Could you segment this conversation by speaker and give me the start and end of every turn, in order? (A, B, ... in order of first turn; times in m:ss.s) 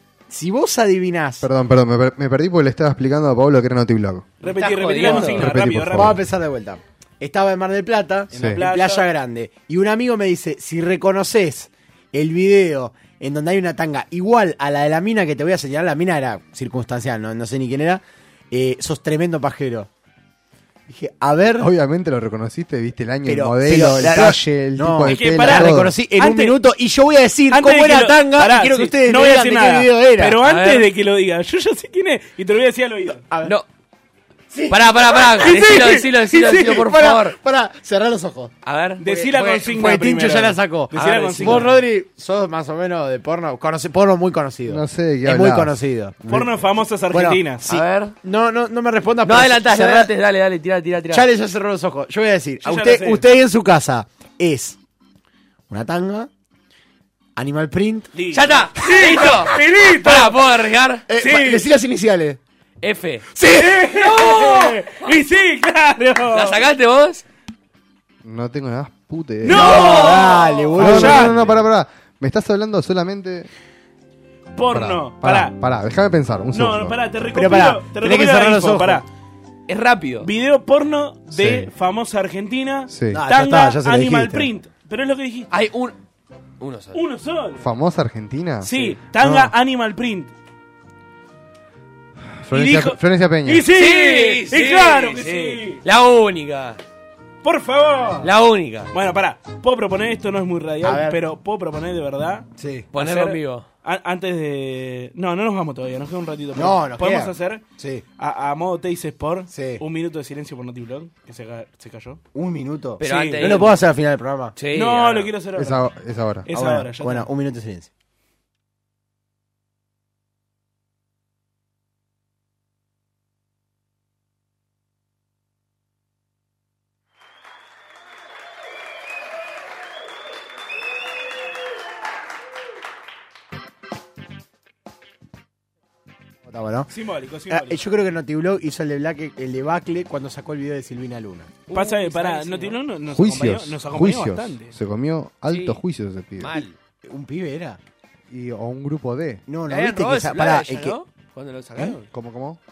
0:00.3-0:01.5 A
0:01.4-0:04.3 B
0:04.4-0:06.1 C
0:04.4-0:05.6 D
0:05.0-0:05.3 A
0:05.0-0:06.2 B
0:05.8-0:19.9 A
0:08.3-0:09.1 C
0:08.3-0:08.6 B
0:20.9-0:21.7 A
0:21.6-0:25.9 B
0:23.2-0:30.4 A
0:25.1-0:26.6 C
0:27.5-0:33.2 C
0:30.4-0:30.9 D
0:33.1-0:33.6 A
0:34.5-0:38.5 A
0:34.7-0:37.4 D
0:35.4-0:36.0 C
0:38.6-0:39.7 D
0:39.0-0:41.8 C
0:39.4-0:50.1 A
0:40.9-0:41.8 D
0:44.6-0:45.8 B
0:46.3-0:47.8 C
0:47.6-0:48.1 D
0:49.2-0:51.3 D
0:51.1-0:54.8 A
0:52.6-0:53.2 C
0:55.7-0:56.3 A
0:57.4-0:58.1 A
0:58.1-1:00.4 C
0:58.3-1:01.1 D
1:01.1-1:02.4 A
1:01.2-1:01.6 C
1:02.8-1:03.3 D
1:03.4-1:04.4 A
1:03.6-1:06.6 C
1:04.0-1:05.1 D
1:06.3-1:07.2 D
1:08.2-1:09.9 B
1:09.4-1:11.4 C
1:09.5-1:11.4 A
1:09.5-1:10.7 D
1:10.8-1:13.5 B
1:14.5-1:15.5 C
1:14.7-1:17.0 B
1:16.5-1:19.0 C
1:17.3-1:19.0 A
1:19.7-1:20.3 D
1:20.2-1:25.5 C
1:21.3-1:21.7 B
1:22.9-1:23.2 B
1:23.1-1:24.5 A
1:25.5-1:25.9 D
1:26.6-1:27.0 D
1:26.9-1:27.6 C
1:27.6-1:29.5 B
1:28.6-1:29.0 D
1:28.6-1:30.3 C
1:32.4-1:33.7 B
1:32.5-1:35.8 C
1:33.7-1:36.8 D
1:37.4-1:38.3 C
1:38.2-1:38.9 D
1:38.9-1:47.6 C
1:40.8-1:41.2 A
1:42.6-1:42.9 A
1:42.9-1:43.6 D
1:46.5-1:48.0 A
1:48.2-1:52.2 C
1:49.5-1:49.8 A
1:52.3-1:54.6 A
1:53.0-1:53.7 C
1:53.0-1:53.8 D
1:54.6-1:55.2 D
1:54.7-1:55.8 C
1:55.5-1:56.5 B
1:56.4-1:57.3 C
1:56.5-1:57.9 A
2:16.4-2:16.9 A
2:16.9-2:17.8 C
2:17.5-2:21.6 A
2:21.7-2:22.8 D
2:21.7-2:24.7 C
2:23.1-2:26.6 B
2:25.5-2:25.8 D
2:26.4-2:26.7 D
2:27.0-2:27.8 A
2:28.3-2:29.4 B
2:29.5-2:31.0 A
2:29.7-2:32.0 D
2:32.1-2:32.6 B